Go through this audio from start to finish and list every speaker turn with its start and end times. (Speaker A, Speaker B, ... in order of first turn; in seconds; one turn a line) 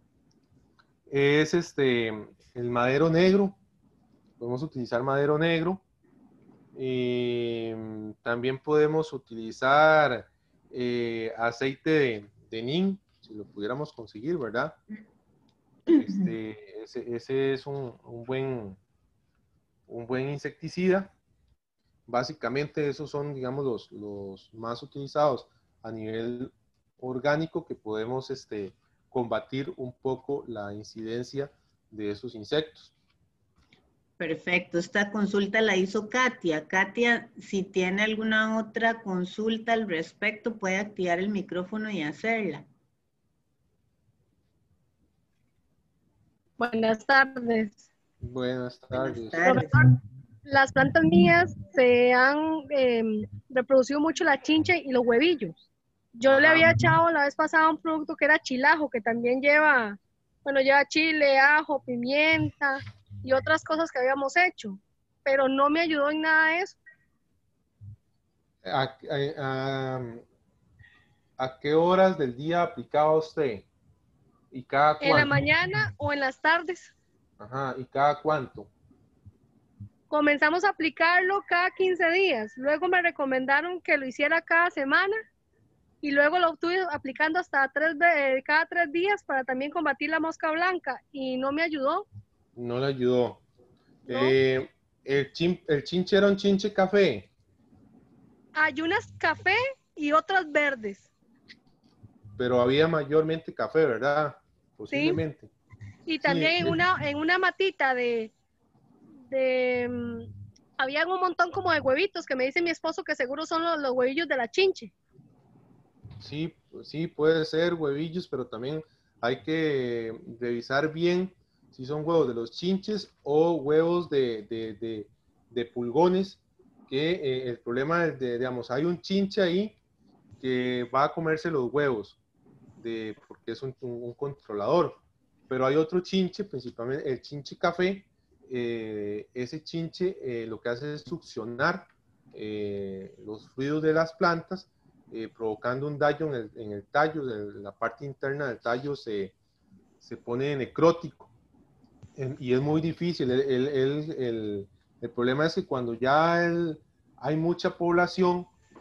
Speaker A: 1.1-3.6
Speaker A: 4.4-5.8
Speaker A: 6.7-14.8
Speaker A: 15.9-18.8
Speaker A: 19.9-21.1
Speaker A: 22.1-32.9
Speaker B: 34.2-42.7
Speaker C: 46.6-47.8
Speaker A: 48.2-49.4
Speaker B: 48.9-49.8
Speaker C: 49.4-49.9
Speaker C: 50.5-55.6
Speaker C: 56.2-66.8
Speaker A: 56.3-56.7
Speaker A: 68.6-70.2
Speaker A: 71.4-73.7
Speaker A: 74.5-75.3
Speaker C: 75.0-76.9
Speaker A: 77.4-78.7
Speaker C: 80.1-85.2
Speaker C: 86.0-92.0
Speaker A: 92.5-93.4
Speaker A: 94.1-97.3
Speaker C: 94.1-94.3
Speaker C: 98.5-101.1
Speaker A: 102.4-105.5
Speaker C: 104.9-105.2
Speaker C: 106.1-108.3
Speaker A: 106.2-106.8
Speaker C: 109.3-114.9
Speaker A: 116.2-129.8
Speaker A: 130.4-132.2
Speaker A: 132.8-149.3
Speaker A: 150.0-151.3
Speaker A: 152.2-158.5